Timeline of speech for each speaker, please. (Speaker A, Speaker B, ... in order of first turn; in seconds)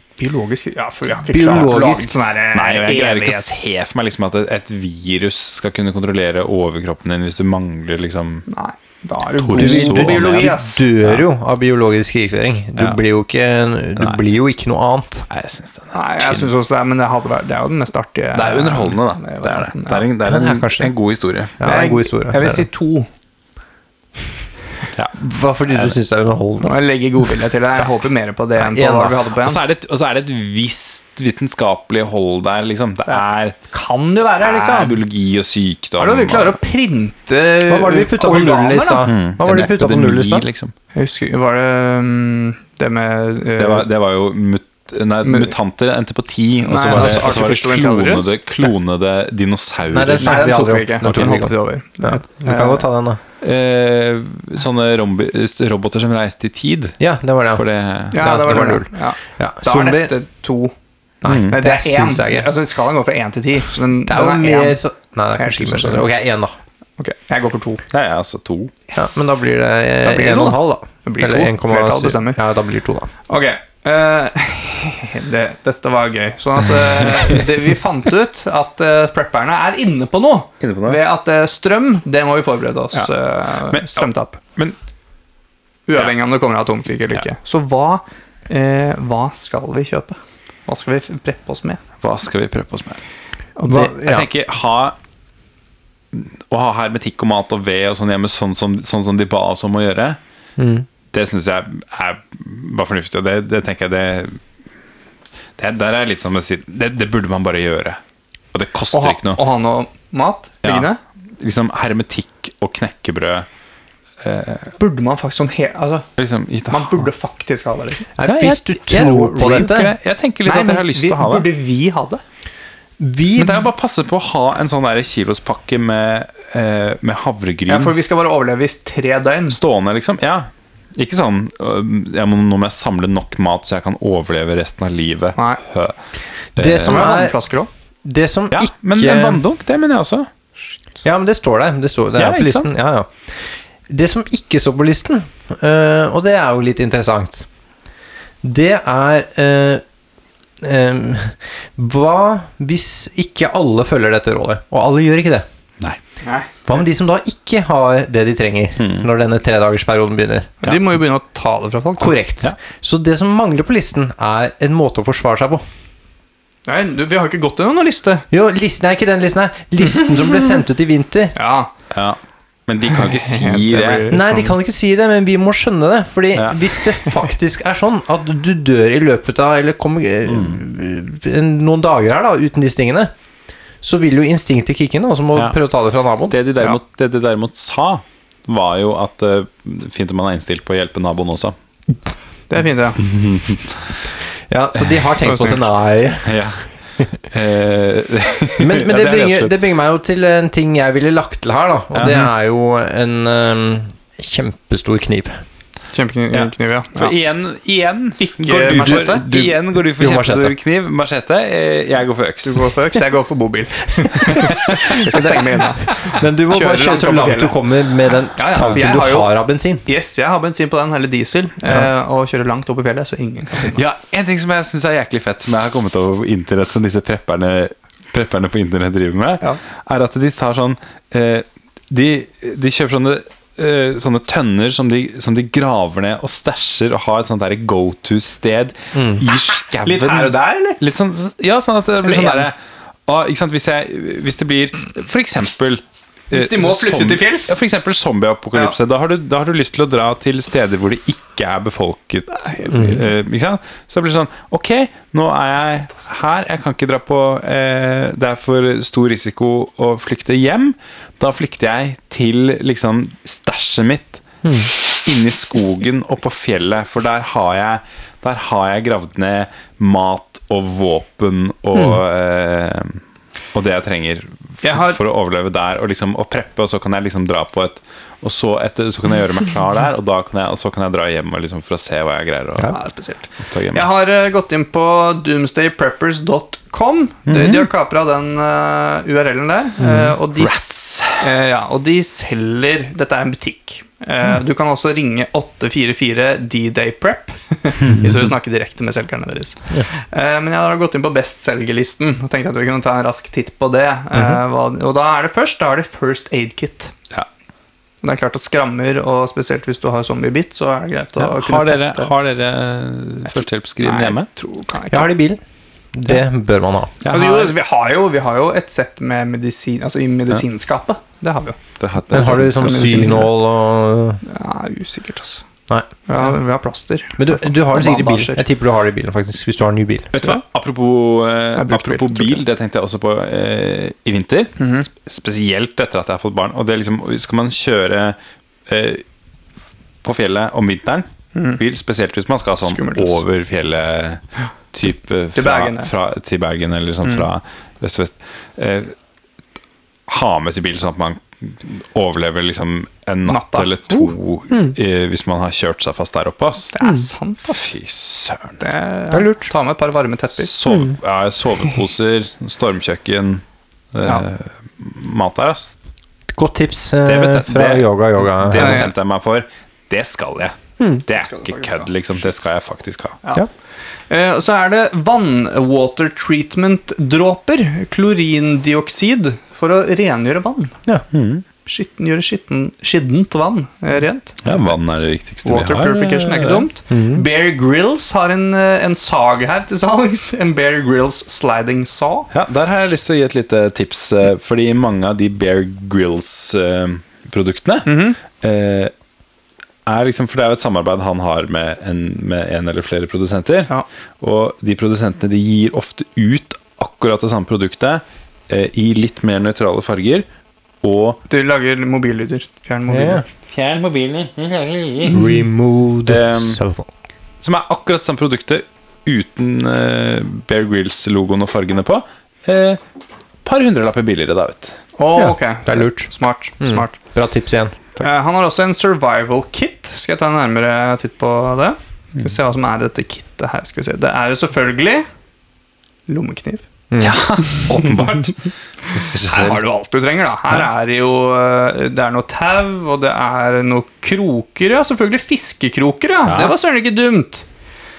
Speaker A: 0.2-3.8, 8.5-10.9, 15.9-20.1, 21.6-23.1, 26.6-29.6, 33.1-35.0, 36.0-39.1, 40.9-43.9, 45.2-45.5, 46.6-48.3, 50.2-52.9, 58.1-60.7, 61.5-64.8, 65.4-66.1, 67.0-67.8, 70.0-72.4, 73.3-84.4, 85.9-91.8, 93.6-93.9, 108.9-111.0, 114.8-116.1, 116.7-118.1, 119.3-119.7, 120.5-122.2, 127.7-129.6, 135.4-135.6, 136.8-137.7, 156.2-156.8, 160.6-162.2, 166.7-168.3, 171.3-171.7, 173.0-174.6, 192.5-193.0, 195.2-195.6, 205.9-207.2, 208.2-209.2, 212.4-217.6, 218.3-219.3, 219.8-223.8, 239.8-240.8, 242.0-242.5, 246.3-247.6, 252.3-253.1, 274.6-275.0, 282.7-306.9, 308.0-312.1, 313.8-315.1, 317.1-321.6, 322.1-323.3, 324.2-325.4, 326.1-328.4, 331.6-332.4, 334.6-334.9, 341.4-341.6, 342.7-343.2, 345.3-345.9, 353.3-354.1, 356.7-357.7, 358.6-360.5, 368.6-368.9, 371.1-371.9, 373.2-373.5, 374.1-380.8, 381.6-384.6, 385.4-392.3, 397.9-398.2, 411.3-413.3, 425.0-427.0, 428.0-435.1, 436.1-436.6, 439.2-447.5
Speaker B: 1.3-2.1, 9.5-15.3, 20.2-20.9, 21.6-22.6, 25.2-26.7, 28.6-29.2, 37.7-40.5, 49.9-53.2, 57.0-60.1, 61.2-62.5, 64.0-66.5, 69.0-73.1, 93.7-94.3, 100.6-100.9, 118.2-119.9, 123.0-123.7, 136.6-137.3, 138.0-139.4, 141.0-147.5, 148.4-149.8, 150.6-155.4, 156.7-160.5, 162.0-165.6, 168.3-171.3, 174.1-183.1, 183.8-186.4, 194.5-196.4, 198.6-205.3, 208.7-210.6, 215.1-219.8, 238.9-239.2, 252.7-253.0, 264.4-264.7, 289.8-290.2, 314.9-315.4, 315.9-316.9, 322.1-324.2, 327.2-330.1, 356.8-357.1, 359.1-359.5, 360.7-361.0, 366.4-368.9, 386.9-387.2, 412.9-413.2, 415.1-416.9, 425.2-426.1, 426.6-427.9, 436.9-437.2
Speaker C: 2.5-8.5, 9.4-10.6, 15.3-16.5, 18.3-21.6, 25.7-26.0, 29.4-33.6, 34.4-36.6, 39.0-40.7, 43.6-51.5, 53.4-57.0, 57.5-58.2, 61.2-61.6, 67.9-68.7, 80.6-81.0, 83.7-84.8, 92.0-93.0, 94.0-95.0, 96.1-100.2, 101.1-104.4, 105.6-108.0, 108.5-109.4, 110.6-110.9, 111.4-113.5, 114.2-114.8, 116.2-117.1, 118.2-121.5, 123.4-128.0, 129.5-136.0, 136.6-137.1, 138.5-140.3, 142.2-142.7, 158.8-159.1, 171.9-174.1, 176.3-176.7, 180.3-180.6, 186.3-191.6, 193.0-194.0, 196.2-196.7, 197.2-199.5, 201.9-202.3, 206.3-212.7, 214.5-214.8, 223.7-273.0, 273.5-282.8, 283.4-283.9, 287.3-287.7, 290.3-291.2, 311.2-314.3, 317.0-317.5, 321.8-323.0, 330.1-339.0, 340.0-348.9, 350.1-356.7, 357.5-358.6, 360.4-365.8, 367.1-373.2, 381.1-381.4, 384.4-386.7, 392.3-398.9, 399.9-410.3, 410.8-411.2, 413.5-415.3, 416.1-416.6, 417.4-422.8, 423.4-424.8, 437.0-439.6, 446.3-446.6